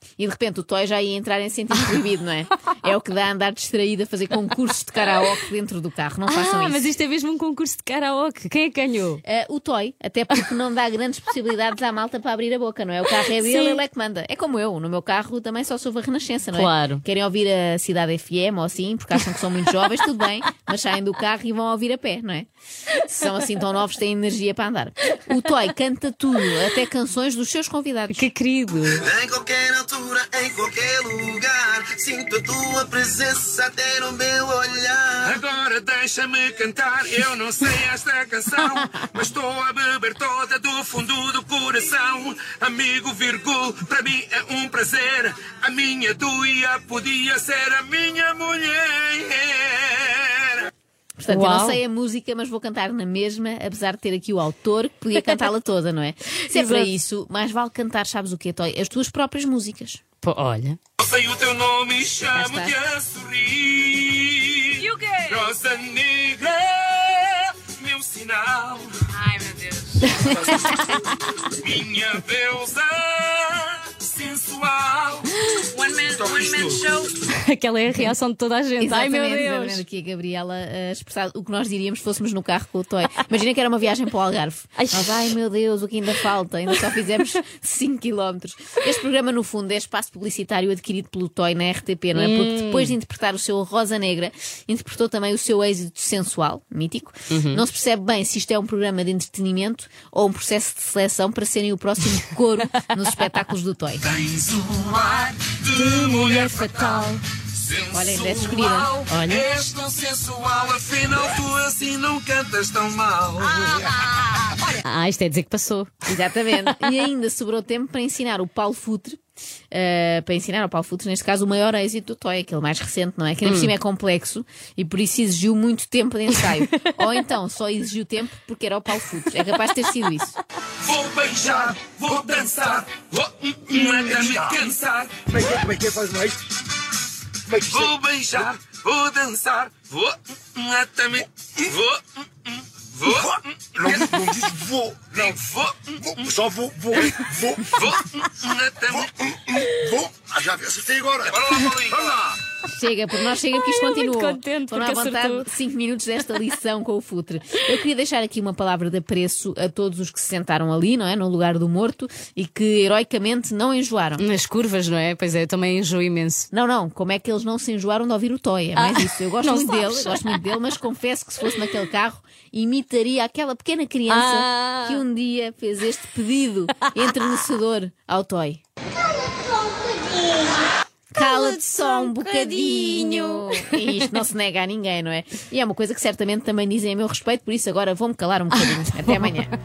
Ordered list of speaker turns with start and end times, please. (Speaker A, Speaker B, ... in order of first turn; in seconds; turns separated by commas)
Speaker A: 0.2-6.9, Speaker B: 6.2-9.2, Speaker A: 9.2-22.5, Speaker B: 13.4-13.8, Speaker B: 16.5-17.0, Speaker A: 23.0-28.3, Speaker B: 28.1-29.1, Speaker C: 29.0-35.2, Speaker D: 35.2-50.7, Speaker A: 51.2-60.0, Speaker B: 51.3-51.8, Speaker B: 55.1-55.5, Speaker B: 56.5-56.9, Speaker B: 60.2-60.8, Speaker D: 61.0-68.9, Speaker A: 62.3-62.7, Speaker E: 64.8-65.5, Speaker E: 69.2-70.0, Speaker D: 70.2-70.9, Speaker A: 70.5-70.8, Speaker D: 71.5-77.1, Speaker E: 75.7-77.2, Speaker B: 77.3-79.8, Speaker A: 78.8-104.1, Speaker B: 84.8-85.3, Speaker B: 92.1-92.9, Speaker B: 97.3-97.6, Speaker D: 104.0-113.9, Speaker B: 105.7-107.2, Speaker A: 107.9-109.0, Speaker B: 109.1-109.5, Speaker B: 114.7-116.0, Speaker A: 116.0-119.2, Speaker A: 119.7-130.4, Speaker B: 123.4-123.7, Speaker D: 130.8-135.2, Speaker F: 135.3-136.4, Speaker F: 137.5-137.9, Speaker D: 137.6-144.4, Speaker F: 143.1-145.4, Speaker D: 145.1-146.3, Speaker F: 146.0-147.9, Speaker D: 146.9-149.2, Speaker F: 149.0-151.4, Speaker D: 151.3-152.3, Speaker A: 152.7-164.2, Speaker B: 153.5-155.5, Speaker B: 164.2-166.5, Speaker A: 166.5-178.6, Speaker B: 168.8-170.4, Speaker B: 174.1-175.0, Speaker A: 181.1-189.5, Speaker E: 181.3-183.4, Speaker B: 189.1-189.4